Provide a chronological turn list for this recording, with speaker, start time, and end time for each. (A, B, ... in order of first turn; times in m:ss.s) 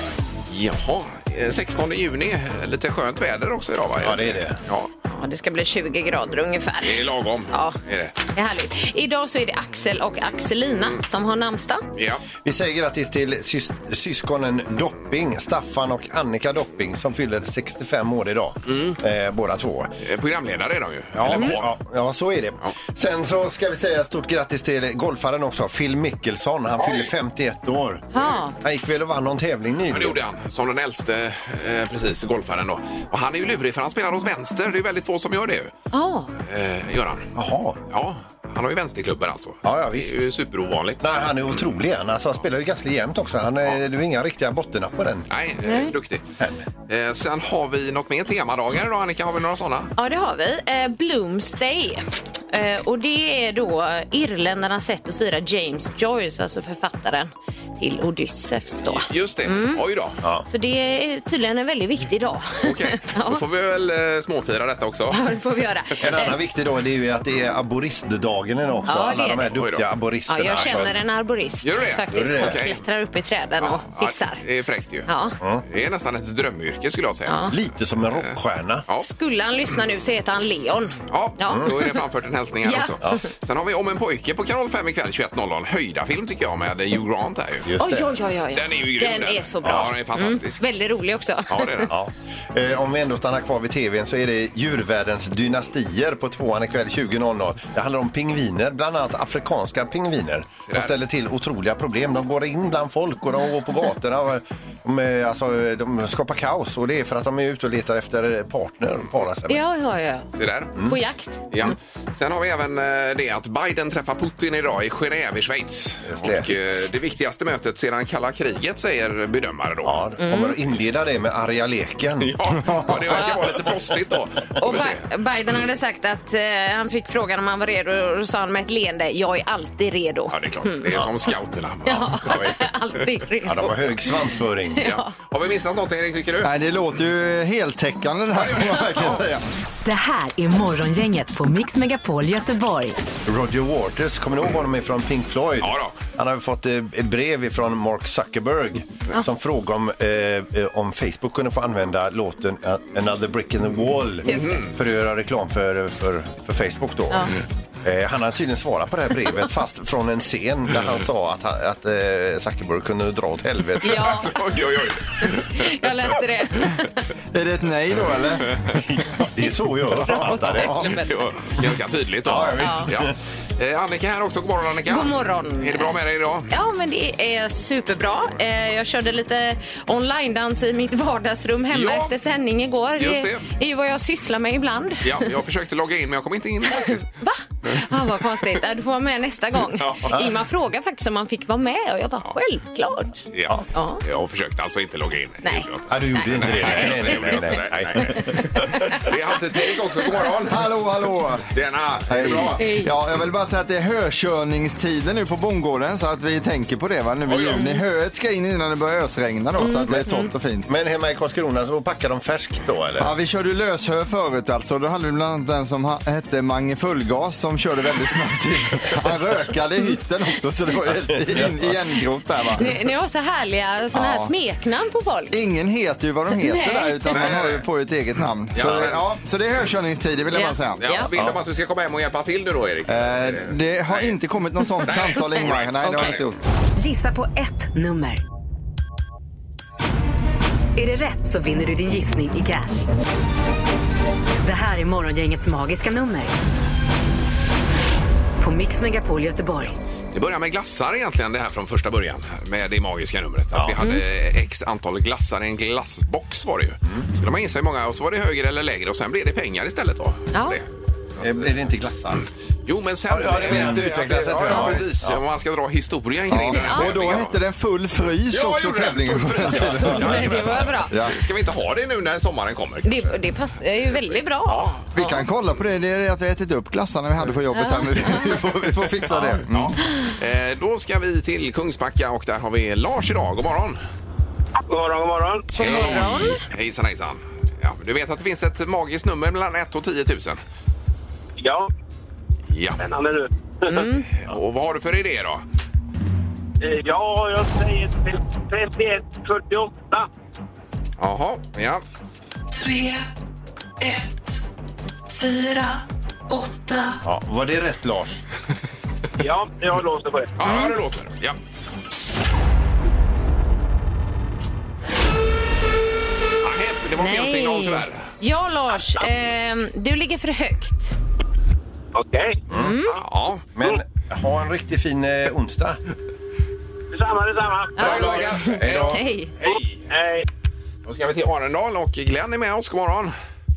0:00.5-0:04.9 A
0:04.0-0:04.6 B
0:05.1-0:07.8 C
0:06.8-0:08.2 A
0:08.3-0:11.8 C
0:12.0-0:12.2 A
0:12.4-0:19.9 B
0:18.7-0:19.0 A
0:20.0-0:21.7 A
0:21.2-0:28.0 B
0:26.8-0:27.1 A
0:28.1-0:28.6 C
0:28.6-0:30.2 B
0:29.9-0:35.7 A
0:35.9-0:36.3 C
0:36.4-0:37.3 A
0:37.3-0:37.8 B
0:37.9-0:41.2 A
0:39.6-0:40.2 B
0:41.0-0:45.3 B
0:45.3-0:46.2 A
0:45.6-0:45.9 C
0:46.4-0:46.6 B
0:46.9-0:49.9 A
0:50.0-0:59.8 C
0:58.8-1:00.2 A
1:00.4-1:03.4 C
1:02.6-1:05.2 A
1:05.1-1:06.4 C
1:06.0-1:11.0 B
1:08.8-1:09.5 C
1:09.2-1:09.8 A
1:10.3-1:14.4 C
1:11.6-1:12.8 A
1:12.1-1:12.6 B
1:13.6-1:15.1 A
1:15.1-1:15.3 C
1:15.6-1:17.4 A
1:17.3-1:17.5 C
1:17.5-1:18.8 B
1:19.0-1:22.0 C
1:21.1-1:27.7 A
1:22.6-1:23.2 C
1:27.6-1:28.2 B
1:27.8-1:31.9 C
1:28.5-1:30.6 A
1:29.6-1:29.9 B
1:31.5-1:31.9 A
1:31.9-1:49.6 B
1:40.6-1:40.9 A
1:49.5-1:51.4 C
1:50.3-1:50.8 A
1:51.5-2:00.0 A
1:56.0-1:56.6 B
1:59.8-2:02.4 B
2:00.2-2:00.6 C
2:02.2-2:05.0 A
2:02.7-2:02.9 D
2:03.1-2:03.4 C
2:04.6-2:11.0 C
2:10.3-2:12.4 A
2:11.8-2:15.1 C
2:12.2-2:12.6 B
2:13.4-2:14.9 B
2:14.8-2:16.5 A
2:16.4-2:19.4 D
2:18.3-2:18.9 A
2:19.8-2:23.0 E
2:23.2-2:44.3 B
2:25.6-2:26.0 A
2:34.3-2:34.7 C
2:34.3-2:34.7 A
2:43.8-2:44.4 C
2:43.9-2:45.7 A
2:45.2-2:47.0 C
2:47.3-2:48.5 D
2:48.7-2:50.9 B
2:50.0-2:51.2 C
2:50.3-2:50.6 D
2:50.8-2:56.5 A
2:52.2-2:53.1 B
2:52.6-2:52.9 C
2:54.9-2:56.0 C
2:56.5-3:05.3 C
3:01.7-3:02.1 A
3:03.0-3:03.5 A
3:05.0-3:07.1 A
3:06.7-3:14.0 C
3:09.8-3:10.1 A
3:10.1-3:10.4 B
3:13.3-3:20.6 A
3:15.9-3:18.9 B
3:16.6-3:17.2 C
3:18.7-3:19.0 C
3:20.5-3:21.5 D
3:21.5-3:22.6 A
3:22.1-3:30.7 D
3:22.5-3:22.9 C
3:27.2-3:27.6 A
3:27.5-3:27.8 C
3:29.6-3:30.3 C
3:30.7-3:33.1 B
3:33.0-3:42.7 D
3:41.2-3:41.5 B
3:42.6-3:45.4 C
3:43.9-3:44.3 D
3:45.3-3:50.8 D
3:46.4-3:47.3 C
3:47.1-3:47.6 A
3:48.5-3:49.0 A
3:50.3-3:51.1 C
3:50.8-3:54.1 A
3:51.2-3:51.4 B
3:52.9-3:56.4 D
3:54.8-3:56.2 A
3:55.2-3:56.2 C
3:56.8-3:58.2 E
4:00.8-4:02.9 E
4:04.4-4:06.3 E
4:08.4-4:09.8 E
4:10.1-4:20.6 A
4:13.8-4:14.0 C
4:20.3-4:20.6 C
4:21.2-4:22.2 B
4:22.2-4:27.4 A
4:23.1-4:25.2 B
4:26.3-4:31.2 D
4:26.5-4:26.9 C
4:28.3-4:33.2 A
4:29.8-4:31.0 C
4:32.8-4:35.2 C
4:34.4-4:34.8 A
4:34.9-4:39.8 D
4:37.5-4:38.4 C
4:39.5-4:43.8 A
4:44.7-4:45.5 F
4:45.5-4:46.4 C
4:45.5-4:50.4 A
4:51.4-4:51.7 F
4:52.5-4:52.8 A
4:52.8-4:53.8 F
4:53.7-4:54.1 C
4:54.2-4:55.4 A
4:56.6-5:00.1 F
5:01.0-5:01.8 A
5:02.5-5:03.0 G
5:03.8-5:04.4 G
5:05.1-5:07.0 G
5:07.0-5:08.2 B
5:09.2-5:10.3 F
5:10.4-5:11.4 A
5:10.4-5:10.7 C
5:16.4-5:18.0 A
5:17.0-5:21.0 C
5:21.9-5:22.4 F
5:22.5-5:22.8 B
5:22.5-5:23.0 C
5:23.0-5:23.4 A
5:23.6-5:25.8 B
5:26.9-5:28.4 F
5:27.8-5:29.3 C
5:27.8-5:29.0 B
5:28.6-5:29.8 A
5:29.4-5:30.2 F
5:30.8-5:33.1 A